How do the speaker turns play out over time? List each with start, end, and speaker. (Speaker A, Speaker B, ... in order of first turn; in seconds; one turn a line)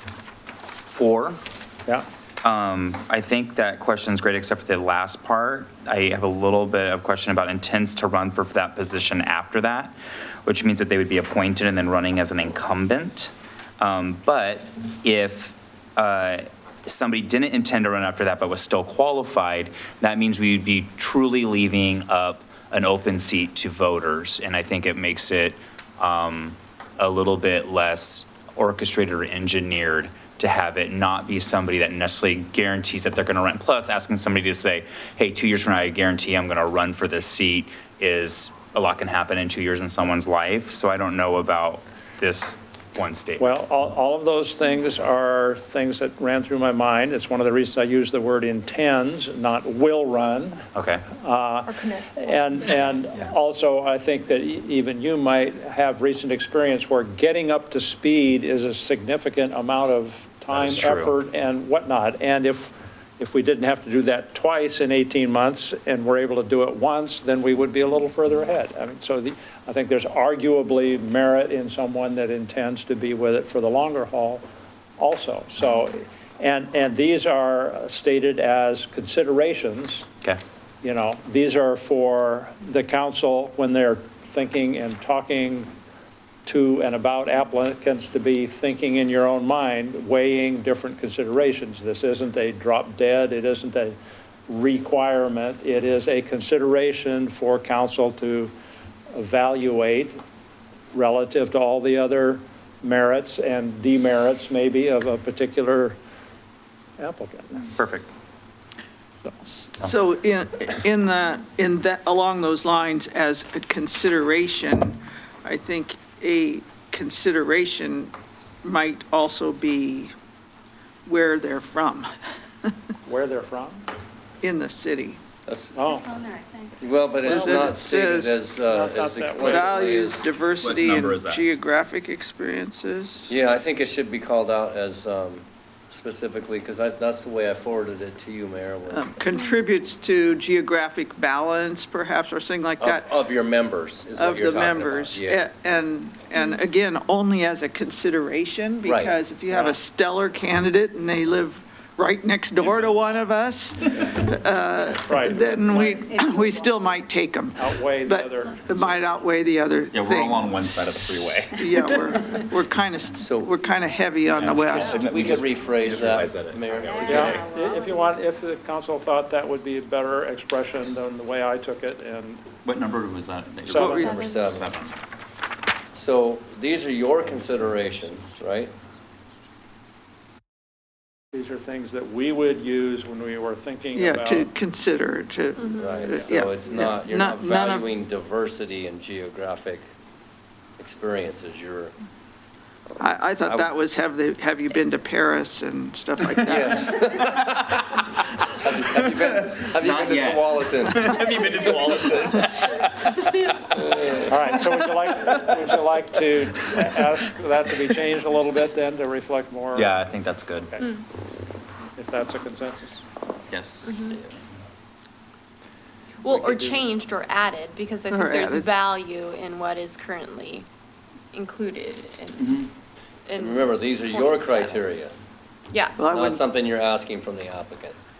Speaker A: 0.9-1.4
Speaker A: 2.4-43.5
Speaker B: 43.4-74.4
Speaker A: 50.7-51.0
Speaker C: 51.7-52.2
Speaker A: 60.5-61.1
Speaker B: 75.0-80.1
Speaker B: 80.8-85.7
Speaker B: 86.5-94.0
Speaker B: 94.5-98.5
Speaker B: 99.1-100.2
Speaker B: 100.9-106.0
Speaker B: 107.0-107.7
Speaker A: 107.8-108.1
Speaker D: 109.6-120.1
Speaker D: 121.0-122.1
Speaker B: 123.1-123.9
Speaker D: 124.4-125.2
Speaker E: 125.5-125.8
Speaker B: 125.7-126.1
Speaker E: 126.8-130.2
Speaker B: 127.2-127.8
Speaker D: 127.2-128.4
Speaker B: 128.6-130.0
Speaker D: 129.4-133.3
Speaker A: 130.6-131.4
Speaker E: 133.3-139.2
Speaker D: 138.9-143.1
Speaker E: 142.8-145.4
Speaker D: 144.2-160.6
Speaker E: 148.8-149.2
Speaker B: 154.9-156.1
Speaker B: 157.5-159.2
Speaker A: 159.9-162.1
Speaker D: 161.5-165.0
Speaker E: 163.2-163.5
Speaker A: 164.3-167.4
Speaker E: 164.8-167.5
Speaker B: 167.1-172.4
Speaker C: 167.2-167.9
Speaker A: 172.6-174.9
Speaker B: 173.7-174.1
Speaker D: 173.7-174.1
Speaker C: 173.8-174.4
Speaker E: 173.9-174.7
Speaker E: 175.9-178.7
Speaker B: 181.3-184.5
Speaker D: 183.9-187.9
Speaker C: 185.6-186.1
Speaker E: 185.8-189.8
Speaker E: 190.8-191.9
Speaker D: 193.0-196.8
Speaker E: 193.4-193.7
Speaker E: 196.4-197.8
Speaker A: 197.1-197.7
Speaker E: 198.5-201.2
Speaker A: 198.9-205.4
Speaker B: 204.2-209.9
Speaker A: 209.7-210.7
Speaker B: 212.0-213.0
Speaker A: 213.5-214.2
Speaker C: 213.8-214.2
Speaker C: 216.2-220.6
Speaker D: 218.1-218.7
Speaker C: 221.3-222.6
Speaker A: 222.4-222.7
Speaker C: 223.3-224.9
Speaker E: 223.4-225.1
Speaker C: 225.7-226.0
Speaker D: 226.0-226.4
Speaker E: 226.1-227.9